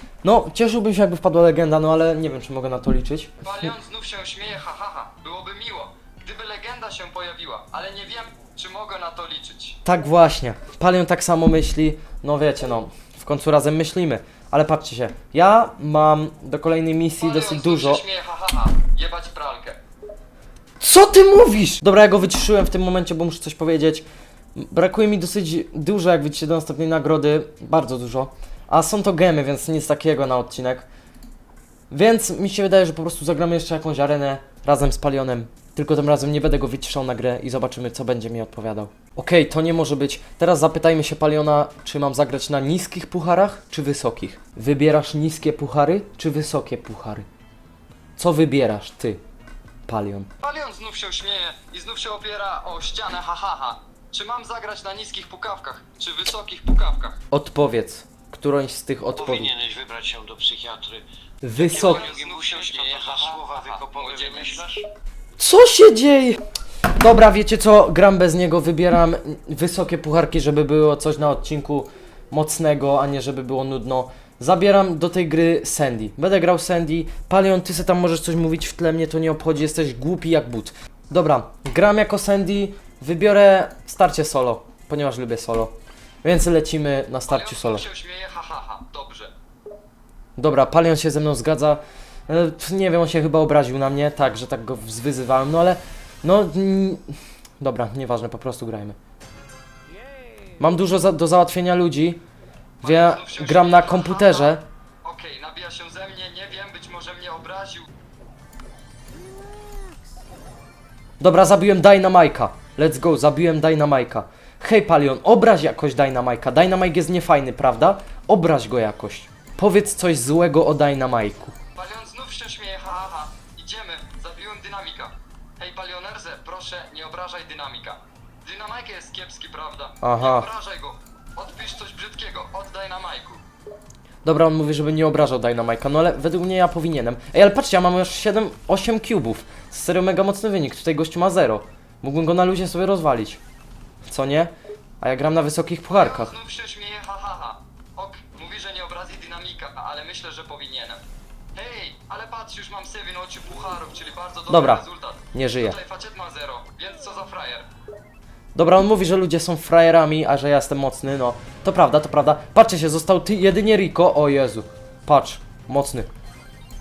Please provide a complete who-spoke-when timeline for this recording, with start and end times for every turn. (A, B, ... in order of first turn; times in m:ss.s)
0:00.2-0:03.4 A
0:03.4-0:09.8 B
0:09.8-0:18.0 A
0:17.2-0:19.8 B
0:20.8-0:24.0 A
0:24.6-0:30.8 A
0:31.9-0:47.2 A
0:48.2-0:49.2 A
0:49.9-0:50.3 A
0:50.4-0:57.2 B
0:57.3-0:59.5 A
0:59.2-1:04.9 C
1:01.4-1:02.0 A
1:01.6-1:04.6 B
1:05.4-1:27.8 A
1:27.3-1:29.3 B
1:30.4-1:37.0 A
1:37.6-1:39.0 A
1:40.6-1:42.2 A
1:42.8-1:44.6 A
1:42.8-1:47.9 B
1:51.2-2:01.5 A
2:01.7-2:13.4 B
2:10.0-2:10.5 A
2:14.2-2:23.4 A
2:24.0-2:26.3 A
2:25.9-2:31.0 B
2:31.5-2:37.7 B
2:34.5-2:35.8 A
2:38.5-2:46.1 A